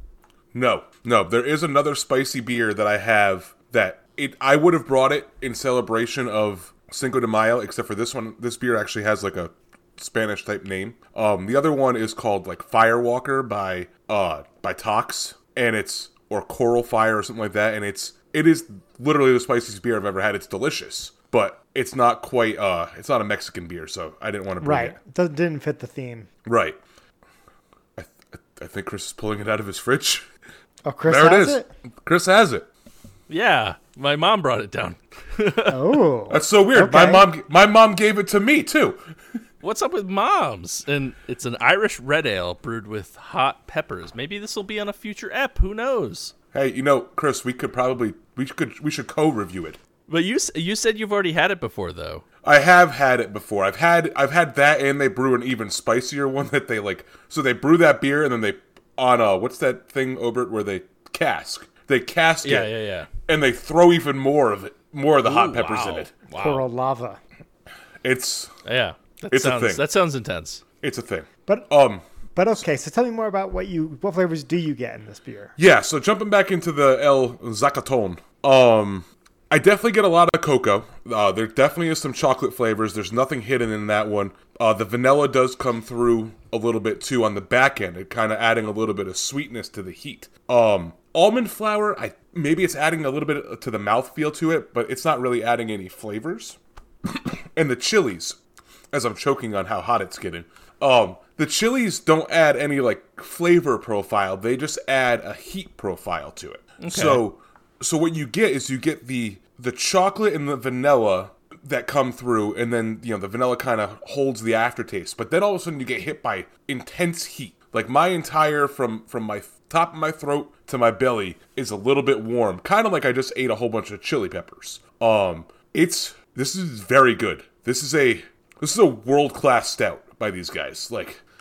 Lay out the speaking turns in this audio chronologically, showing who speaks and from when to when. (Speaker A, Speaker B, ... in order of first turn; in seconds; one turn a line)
Speaker A: 0.5-24.9
Speaker B: 24.6-26.3
Speaker A: 26.4-26.8
Speaker A: 27.9-30.3
Speaker B: 30.8-31.7
Speaker A: 31.1-32.7
Speaker C: 33.3-35.8
Speaker B: 35.7-37.3
Speaker A: 36.3-39.1
Speaker C: 39.6-46.3
Speaker A: 46.5-49.8
Speaker C: 50.1-52.2
Speaker A: 52.4-62.7
Speaker C: 62.4-63.1
Speaker A: 63.3-66.1
Speaker C: 65.2-66.7
Speaker B: 66.3-67.2
Speaker A: 68.0-68.5
Speaker C: 68.6-70.6
Speaker A: 69.3-69.8
Speaker A: 70.8-72.0
Speaker B: 72.3-75.5
Speaker A: 75.6-96.6
Speaker A: 97.1-98.4
Speaker A: 98.9-131.2
Speaker C: 106.8-107.2